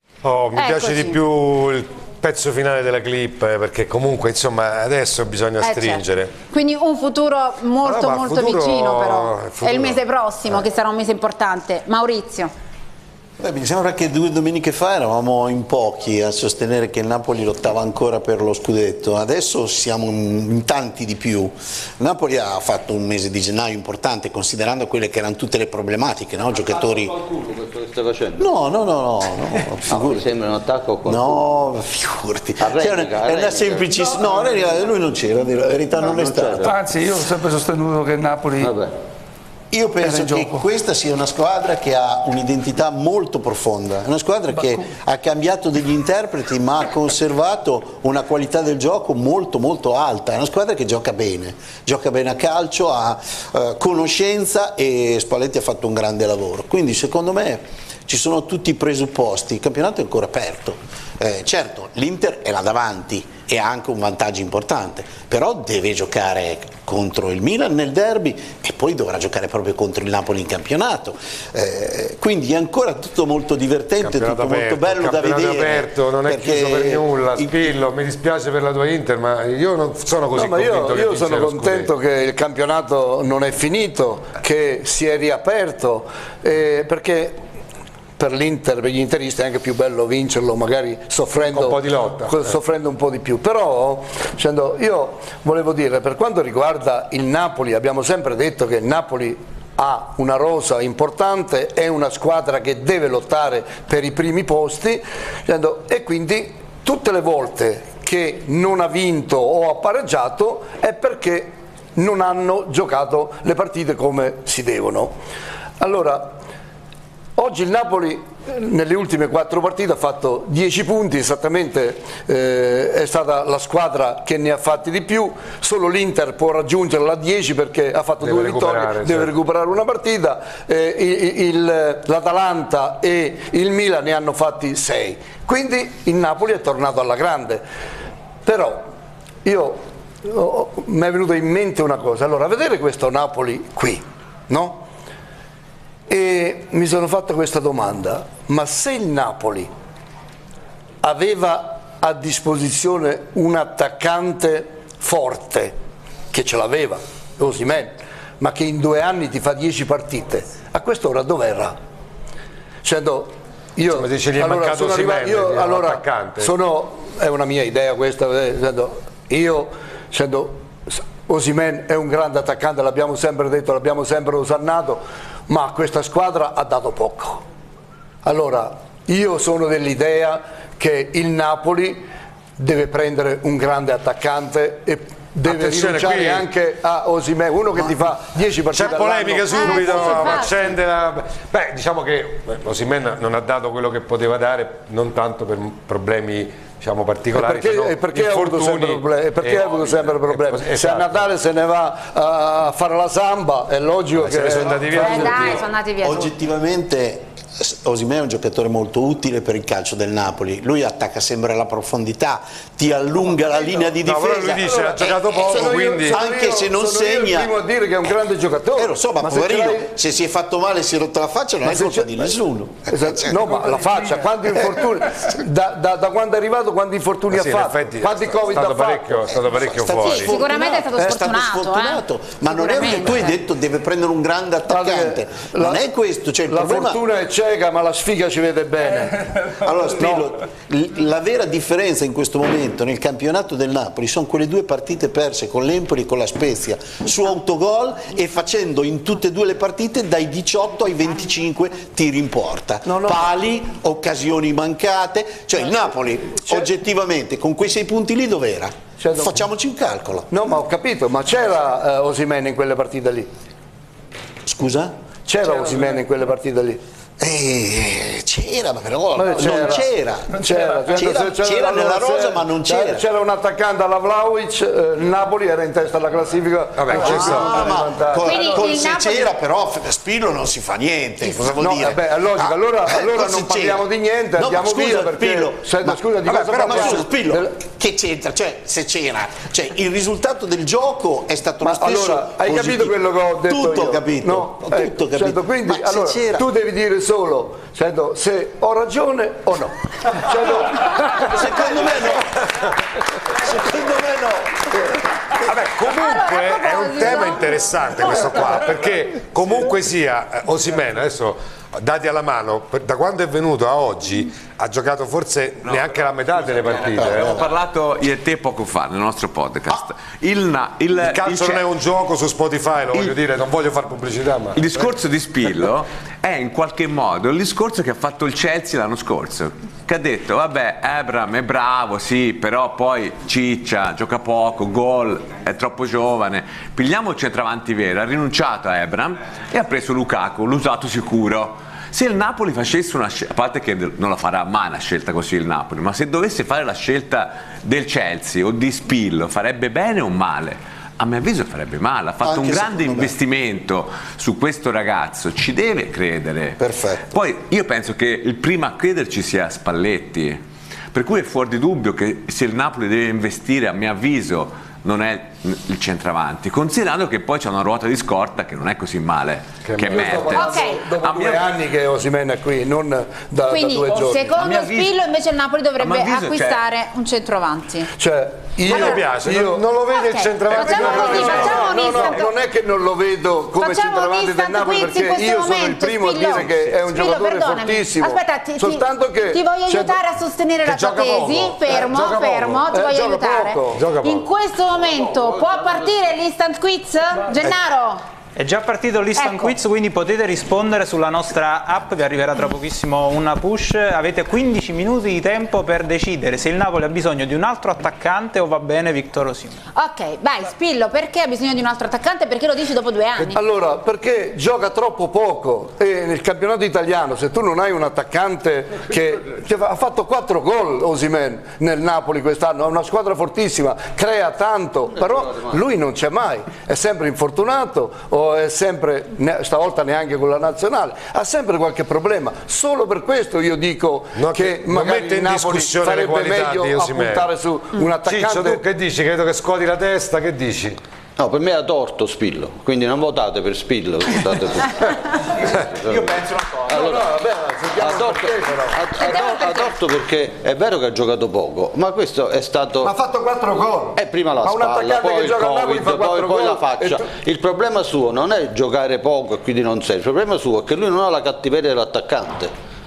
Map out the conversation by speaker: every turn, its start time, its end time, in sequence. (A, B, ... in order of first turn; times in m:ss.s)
0:00.2-0:06.3 A
0:00.6-0:01.2 B
0:05.6-0:12.5 B
0:07.8-0:10.0 A
0:13.4-0:27.1 C
0:26.7-0:28.5 D
0:28.4-0:30.2 C
0:29.9-0:31.4 D
0:31.0-0:36.8 C
0:32.6-0:34.2 D
0:36.0-0:36.7 D
0:36.6-0:38.8 E
0:38.6-0:38.9 D
0:39.7-1:17.7 C
0:40.0-0:40.7 E
0:44.5-0:44.9 E
1:14.0-1:21.9 A
1:20.3-1:27.4 F
1:28.2-1:55.2 F
1:31.4-1:32.6 A
1:55.8-1:56.3 F
1:57.4-2:17.6 F
2:08.2-2:09.3 A
2:18.4-2:18.9 F
2:19.4-2:24.8 F
2:26.1-2:29.7 F
2:31.0-2:35.8 F
2:36.3-2:41.8 F
2:42.8-2:57.4 F
2:43.9-2:46.6 A
2:58.2-3:02.0 F
3:02.6-3:10.4 F
3:05.4-3:06.5 A
3:08.8-3:21.3 A
3:08.8-3:10.5 B
3:17.3-3:25.6 F
3:24.2-3:25.7 A
3:24.9-3:26.3 B
3:26.0-3:37.5 C
3:34.0-3:36.2 A
3:34.5-3:39.9 F
3:38.8-3:43.6 C
3:41.6-3:42.2 F
3:42.9-3:49.4 F
3:43.5-3:44.3 E
3:47.3-3:50.4 A
3:49.5-3:57.0 C
3:50.0-3:53.4 B
3:50.6-3:50.8 F
3:54.7-3:55.8 F
3:56.5-3:59.2 F
3:59.6-4:20.3 C
4:00.0-4:00.3 F
4:12.9-4:13.3 F
4:16.4-4:16.7 F
4:19.0-4:19.4 F
4:20.3-4:23.3 F
4:24.4-4:24.9 C
4:25.3-4:26.8 F
4:25.4-4:26.0 E
4:27.2-4:33.0 C
4:29.2-4:38.4 F
4:36.8-4:37.8 A
4:36.9-4:56.5 C
4:38.2-4:39.3 B
4:41.6-4:47.6 F
4:46.4-4:47.1 A
4:51.6-5:01.7 F
5:01.2-5:02.3 C
5:03.3-5:04.7 C
5:05.3-5:17.4 A
5:05.8-5:08.4 B
5:15.6-5:21.6 G
5:17.0-5:17.5 C
5:21.0-5:25.0 A
5:24.6-6:00.4 G
5:52.2-5:53.1 C
5:56.6-5:57.1 C
6:00.9-6:11.5 G
6:09.7-6:10.4 A
6:09.9-6:14.4 F
6:10.3-6:10.8 B
6:13.5-6:17.9 B
6:13.9-6:14.9 G
6:15.8-6:16.6 G
6:18.0-6:19.7 F
6:18.6-6:22.0 A
6:18.7-6:19.0 B
6:19.9-6:22.3 B
6:20.5-6:30.0 F
6:20.9-6:22.0 G
6:23.6-6:38.0 B
6:26.3-6:26.7 G
6:30.6-6:32.6 A
6:32.7-6:33.8 F
6:33.8-6:34.3 A
6:34.8-6:36.1 D
6:38.4-6:49.6 H
6:39.2-6:39.5 B
6:49.8-6:53.4 B
6:53.3-7:18.6 F
7:04.9-7:05.6 D
7:14.2-7:17.3 A
7:18.0-7:20.8 A
7:21.2-7:27.1 D
7:26.7-7:29.1 F
7:27.8-7:33.0 D
7:29.1-7:29.7 B
7:32.8-7:37.1 F
7:34.0-7:42.5 D